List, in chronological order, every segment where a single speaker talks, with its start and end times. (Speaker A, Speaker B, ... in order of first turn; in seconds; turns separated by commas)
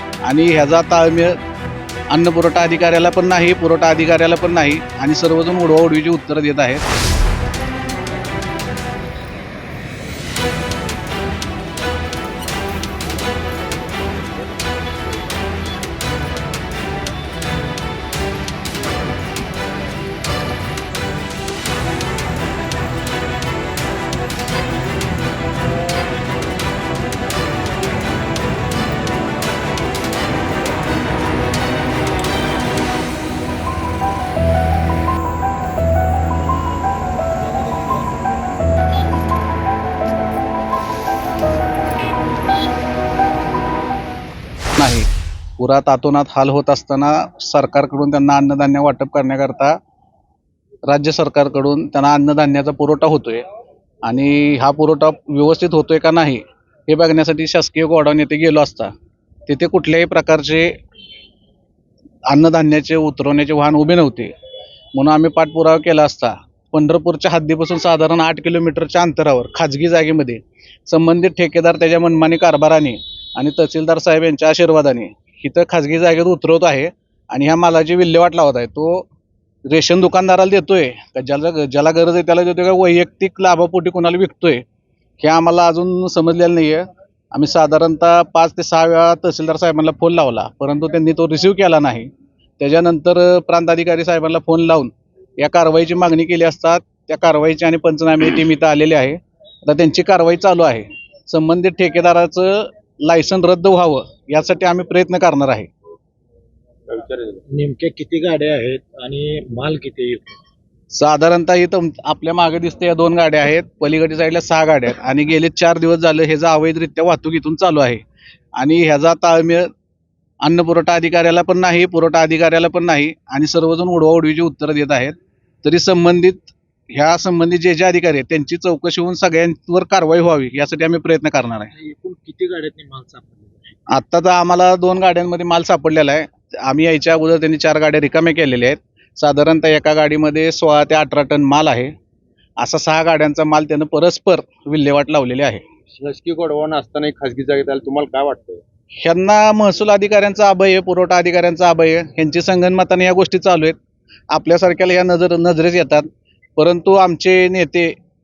Speaker A: 0.2-1.4, Speaker A: 2.1-6.8, Speaker B: 37.4-38.1, Speaker A: 44.8-45.1, Speaker A: 45.6-49.8, Speaker A: 50.9-53.4, Speaker A: 54.0-58.9, Speaker A: 59.5-60.7, Speaker A: 62.3-64.3, Speaker A: 64.9-79.1, Speaker A: 79.7-84.6, Speaker A: 85.2-105.7, Speaker C: 106.9-107.4, Speaker B: 107.5-110.3, Speaker A: 110.9-118.0, Speaker A: 118.6-119.7, Speaker A: 120.4-131.7, Speaker B: 131.7-133.8, Speaker A: 133.9-141.9, Speaker A: 142.6-145.6, Speaker C: 145.9-148.6, Speaker A: 149.0-153.8, Speaker A: 154.3-157.9